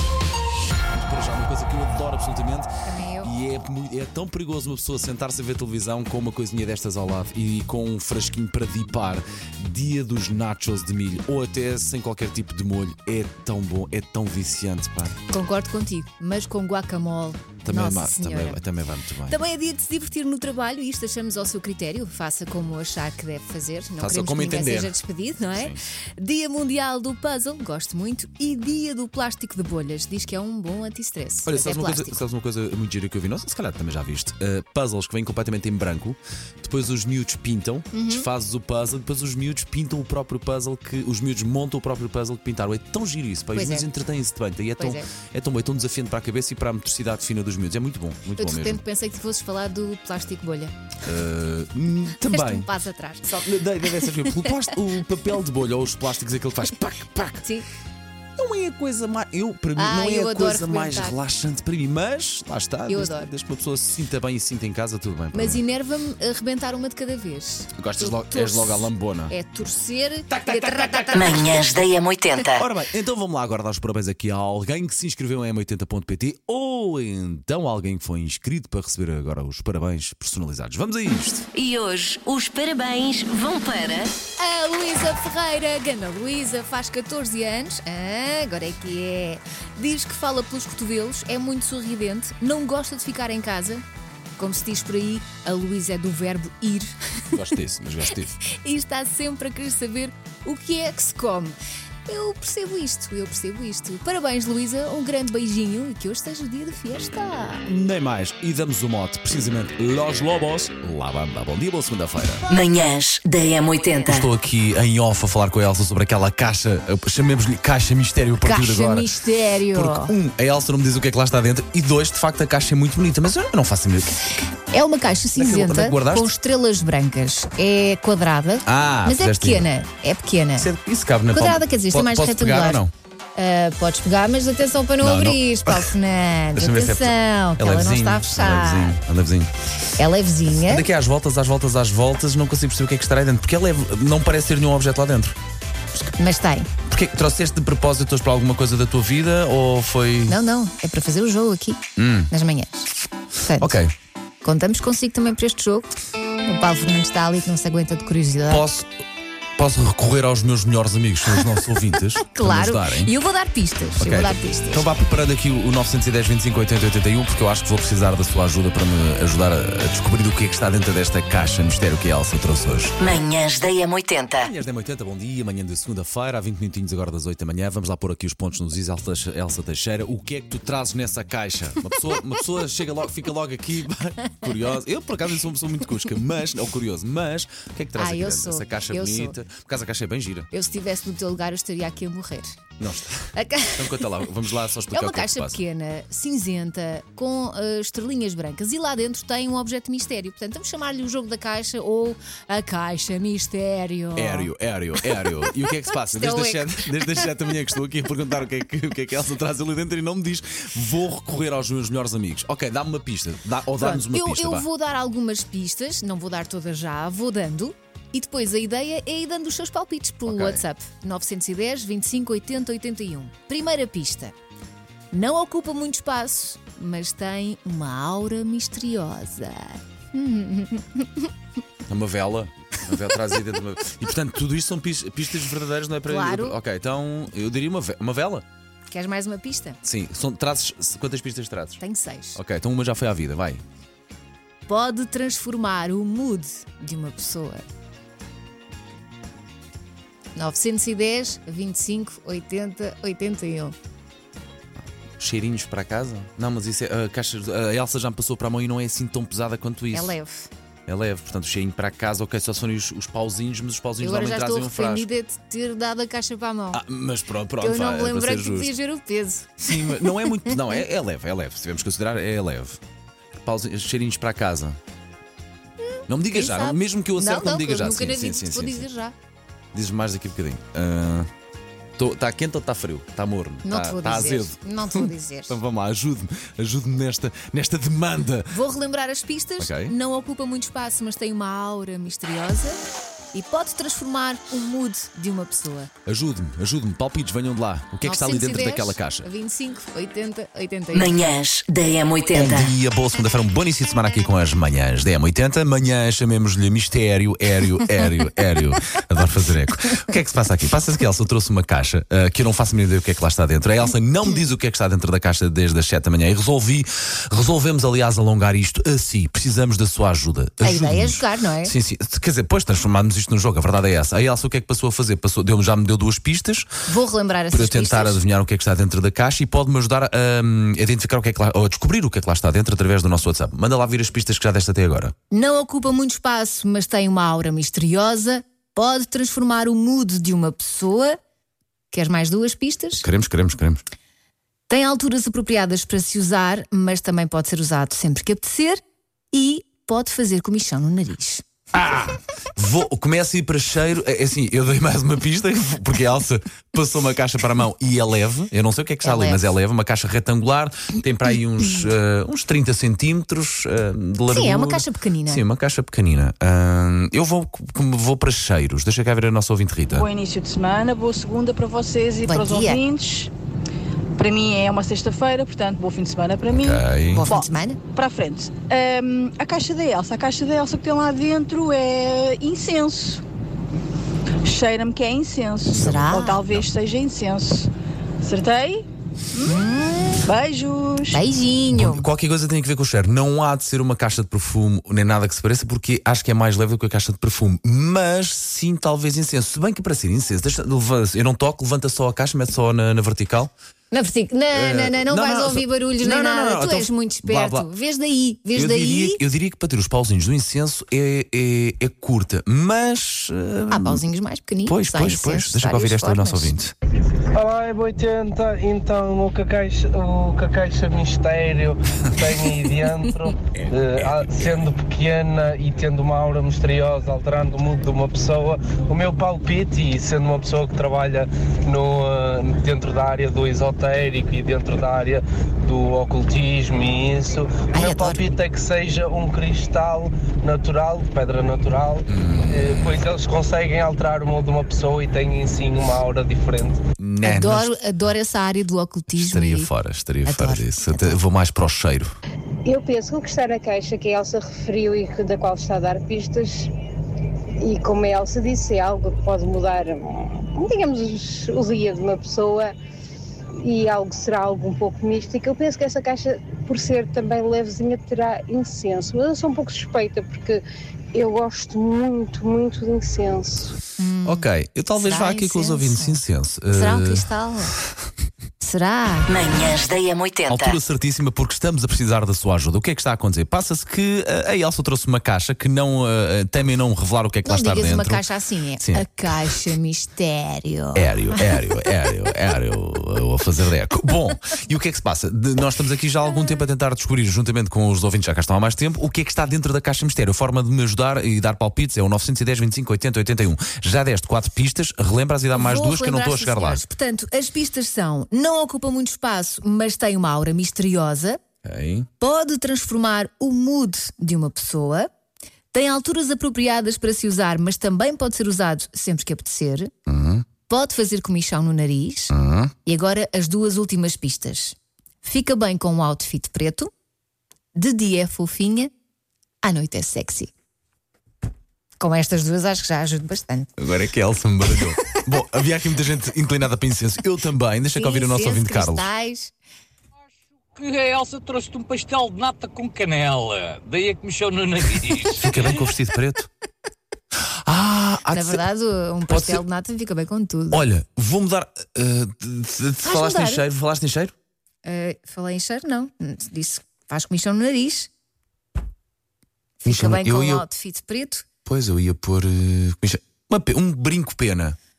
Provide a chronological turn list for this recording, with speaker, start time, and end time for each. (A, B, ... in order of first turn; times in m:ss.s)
0:00.9-0:15.2 A
0:02.9-0:03.3 B
0:15.3-0:18.6 B
0:17.6-0:19.4 A
0:19.3-0:32.2 B
0:24.0-0:25.0 A
0:25.5-0:25.8 A
0:31.5-0:48.8 A
0:37.9-0:38.3 B
0:43.5-0:43.9 B
0:44.8-0:45.1 B
0:48.4-0:50.7 B
0:51.0-0:52.7 A
0:52.3-0:53.4 B
0:53.3-0:57.5 A
0:58.4-1:05.6 A
0:59.8-1:01.2 B
1:02.9-1:03.3 B
1:05.3-1:11.4 B
1:07.8-1:09.3 A
1:10.3-1:11.7 A
1:11.1-1:12.6 C
1:12.5-1:21.5 A
1:21.5-1:24.1 C
1:24.4-1:33.8 B
1:34.4-1:37.4 B
1:37.3-1:38.4 A
1:38.5-1:47.7 B
1:47.7-1:52.4 A
1:52.5-1:54.3 C
1:54.1-1:59.1 A
1:58.4-2:00.2 B
1:59.7-2:04.3 A
2:04.7-2:10.7 B
2:05.4-2:06.3 A
2:08.7-2:09.7 A
2:10.6-2:12.9 A
2:11.3-2:12.8 B
2:13.4-2:19.0 B
2:15.0-2:16.0 A
2:16.5-2:19.5 A
2:20.0-2:20.9 B
2:20.6-2:25.4 A
2:26.0-2:26.7 B
2:26.9-2:30.4 A
2:30.3-2:32.9 B
2:32.0-2:32.3 A
2:33.4-2:33.8 B
2:33.6-2:33.9 A
2:34.4-2:35.9 B
2:36.5-2:38.6 B
2:38.5-2:38.9 A
2:39.6-2:43.1 A
2:42.3-2:44.9 B
2:44.0-2:53.0 A
2:53.0-2:54.5 C
2:54.4-3:10.5 A
3:08.0-3:09.4 B
3:10.5-3:12.5 B
3:12.8-3:15.6 A
3:13.4-3:14.3 B
3:14.9-3:24.5 B
3:24.2-3:34.7 A
3:26.0-3:26.9 B
3:33.8-3:44.4 B
3:40.3-3:40.6 A
3:45.1-3:51.3 B
3:51.9-3:58.5 A
3:56.1-3:56.6 B
3:58.9-3:59.8 B
3:59.8-4:01.8 A
4:01.8-4:02.4 B
4:02.4-4:03.6 A
4:04.7-4:07.6 B
4:10.4-4:13.8 B
4:15.2-4:20.2 A
4:19.9-4:20.5 B
4:20.9-4:25.1 A
4:24.0-4:26.8 B
4:26.7-4:28.7 A
4:27.6-4:30.6 B
4:29.6-4:32.8 A
4:33.3-4:34.8 A
4:35.8-4:39.2 B
4:36.1-4:38.9 A
4:39.7-4:41.3 A
4:42.0-4:48.6 A
4:43.6-4:45.6 B
4:48.5-4:52.8 B
4:49.6-4:49.9 A
4:53.3-4:55.9 B
4:56.1-4:59.3 A
4:58.0-5:01.2 B
5:00.9-5:02.7 C
5:02.3-5:26.7 A
5:20.6-5:21.7 B
5:26.9-5:28.2 B
5:27.5-5:35.1 A
5:35.3-5:41.2 B
5:41.9-5:43.0 B
5:42.9-5:43.8 A
5:44.7-5:48.8 B
5:49.3-5:51.4 B
5:51.7-6:10.1 A
5:59.0-5:59.4 B
6:04.3-6:05.4 B
6:09.9-6:13.3 D
6:12.2-6:12.9 B
6:14.2-6:23.2 D
6:16.5-6:17.3 A
6:17.1-6:17.8 B
6:24.4-6:27.7 D
6:25.7-6:26.5 B
6:25.7-6:26.7 A
6:28.2-6:29.7 D
6:29.4-6:30.3 B
6:30.2-6:31.2 D
6:31.1-6:32.1 B
6:31.7-6:43.5 A
6:43.9-6:49.2 B
6:44.5-6:47.7 A
6:48.5-6:54.0 A
6:53.7-6:56.5 B
6:54.7-6:56.7 A
6:57.4-7:26.8 E
7:17.7-7:18.3 B
7:22.1-7:23.1 A
7:27.0-7:27.7 A
7:27.2-7:29.7 B
7:29.1-7:32.2 A
7:30.2-7:31.2 B
7:32.6-7:36.7 F
7:37.6-7:42.8 F
7:43.6-7:50.6 F
7:51.1-7:53.8 F
7:54.0-7:56.2 B
7:54.2-7:57.3 A
7:56.7-7:57.8 B
7:58.6-7:59.3 B
7:59.3-8:00.8 C
8:00.5-8:08.2 A
8:07.5-8:11.4 B
8:08.8-8:09.6 A
8:11.0-8:26.8 A
8:25.5-8:31.4 B
8:31.6-8:32.1 A
8:32.2-8:35.1 B
8:35.7-8:39.9 B
8:40.1-8:40.5 A
8:40.7-8:42.3 B
8:42.3-8:42.7 A
8:42.8-8:46.9 B
8:47.8-8:48.9 B
8:49.6-8:50.5 B
8:52.0-8:53.7 B
8:53.8-8:59.1 A
8:58.0-8:59.5 B
9:00.8-9:05.8 G
9:05.4-9:06.5 A
9:07.4-9:08.6 A
9:08.3-9:10.9 B
9:09.3-9:09.6 A
9:10.7-9:14.4 A
9:13.0-9:13.6 B
9:14.8-9:18.1 B
9:19.8-9:21.5 B
9:19.9-9:20.7 A
9:21.7-9:24.8 A